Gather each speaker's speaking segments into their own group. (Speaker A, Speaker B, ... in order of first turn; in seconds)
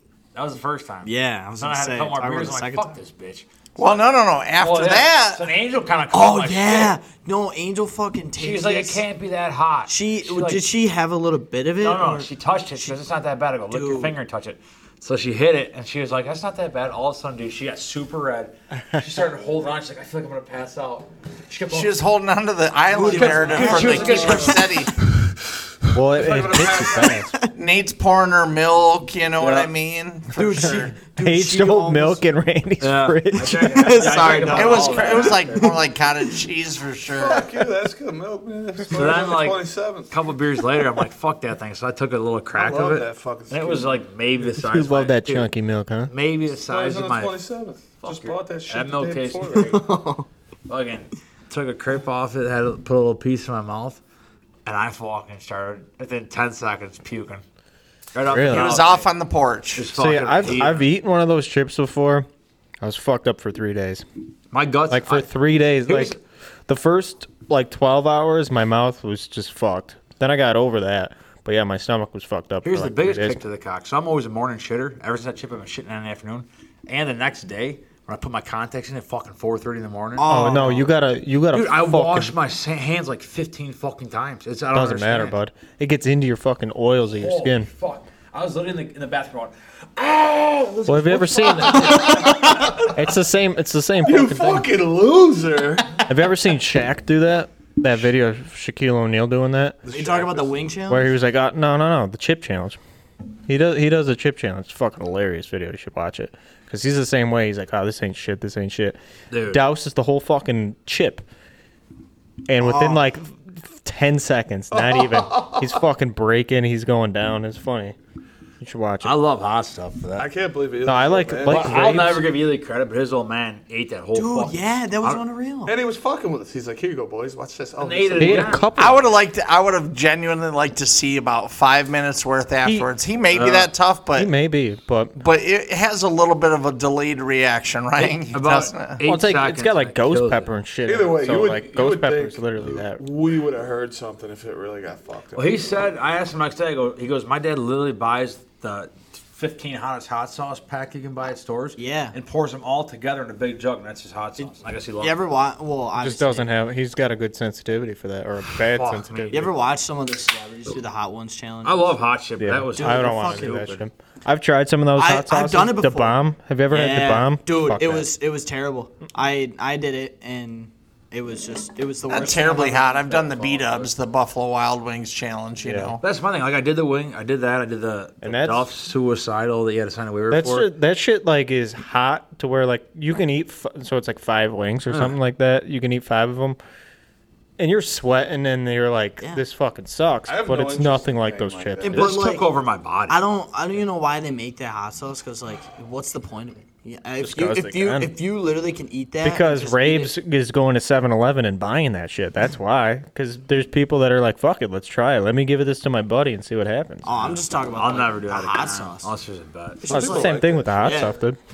Speaker A: 0.3-6.9, 8.4-10.6, 11.8-22.0, 23.0-24.8, 29.4-29.7, 32.8-35.7, 38.9-45.5, 46.1-47.4, 48.0-49.8, 50.7-54.0, 54.6-57.4, 58.1-59.1, 59.8-60.9, 64.5-65.3, 65.8-66.2, 72.6-80.3, 81.5-85.3, 87.1-92.9, 109.3-109.6, 119.0-120.3, 121.5-125.2, 127.8-128.7, 133.3-133.7, 138.0-140.5, 145.3-155.2, 158.6-159.5, 161.6-163.8, 176.0-180.7, 184.9-185.1, 191.9-193.2, 207.2-209.8
Speaker B: 1.0-3.0, 6.1-9.0, 9.9-13.1, 13.7-14.2, 22.9-24.8, 27.1-27.5, 30.3-32.2, 33.4-35.8, 49.6-50.3, 80.2-80.9, 92.0-92.7, 99.9-101.1, 112.6-113.0, 124.1-125.8, 151.8-152.2, 155.0-156.5, 159.3-162.0, 162.7-163.8, 165.0-166.2, 166.7-172.8, 191.8-192.5, 193.1-200.1, 207.0-209.1, 209.8-211.1
Speaker C: 3.8-5.4, 21.7-24.9, 27.5-31.0, 34.2-37.5, 58.5-59.9, 128.8-134.3, 135.2-139.0, 172.1-176.0
Speaker D: 25.9-27.3, 31.2-33.7, 44.6-46.1, 58.3-58.8, 59.9-62.3, 62.8-64.0, 64.9-66.2, 66.7-73.4, 80.3-82.3, 84.7-87.7, 90.9-94.7, 96.1-99.8, 100.9-102.8, 103.5-109.0, 109.5-111.2, 112.5-118.0, 118.6-119.2, 120.8-122.2, 128.2-129.1, 134.2-135.2, 139.0-143.0, 156.0-159.5, 162.4-168.1, 175.6-176.0, 178.2-178.7, 180.3-186.6, 187.6-192.1, 197.2-198.1, 199.2-207.2, 209.9-211.4
Speaker E: 26.1-27.2, 37.2-40.1, 42.5-44.0, 46.6-49.9, 94.0-96.1, 99.8-100.7, 114.7-115.8, 120.2-122.0, 125.7-128.7, 140.9-145.8, 172.8-173.8, 190.3-192.2, 209.9-211.2